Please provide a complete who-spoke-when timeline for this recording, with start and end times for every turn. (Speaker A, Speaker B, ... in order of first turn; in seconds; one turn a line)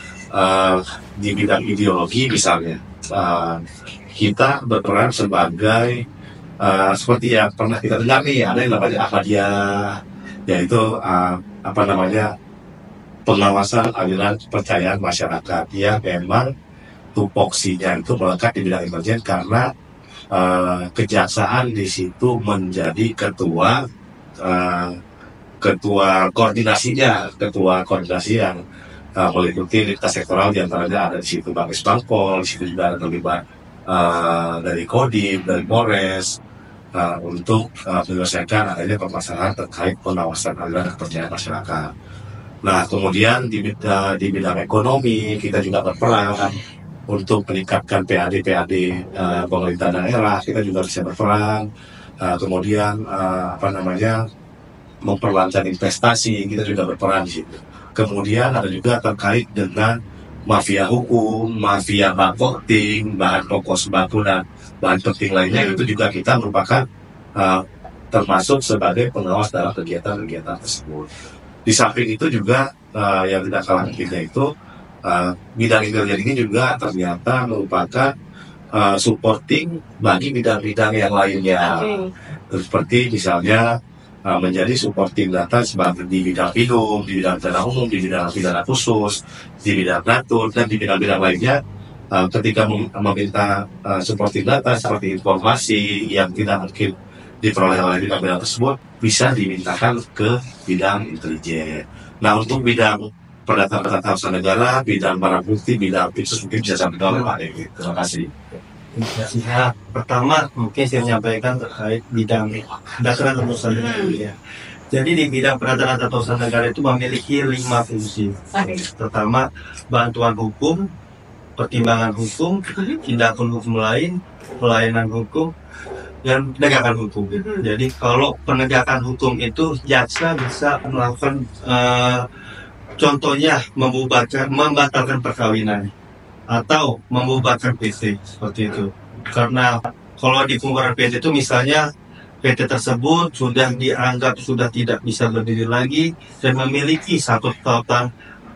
Speaker A: 0.3-3.6
Speaker A: 4.2-6.0
Speaker A: 6.6-9.9
Speaker A: 10.5-12.3
Speaker A: 13.3-16.5
Speaker A: 17.1-19.7
Speaker A: 20.3-23.8
Speaker A: 24.4-24.9
Speaker A: 25.6-28.6
Speaker A: 29.2-36.3
Speaker A: 36.9-41.9
Speaker A: 42.6-46.6
Speaker A: 47.1-51.6
Speaker A: 52.2-54.2
Speaker A: 55.0-59.9
Speaker A: 60.5-66.8
Speaker B: 65.5-65.8
Speaker A: 67.4-71.1
Speaker A: 71.7-74.5
Speaker A: 75.0-78.1
Speaker A: 78.7-81.9
Speaker B: 81.6-82.1
Speaker A: 82.5-83.6
Speaker A: 84.3-91.6
Speaker A: 92.1-108.3
Speaker C: 108.9-114.3
Speaker B: 113.7-114.2
Speaker C: 114.9-120.8
Speaker B: 118.5-118.8
Speaker C: 121.6-125.5
Speaker C: 126.2-132.2
Speaker B: 127.3-127.6
Speaker C: 133.0-135.9
Speaker C: 136.5-141.8
Speaker C: 142.4-148.1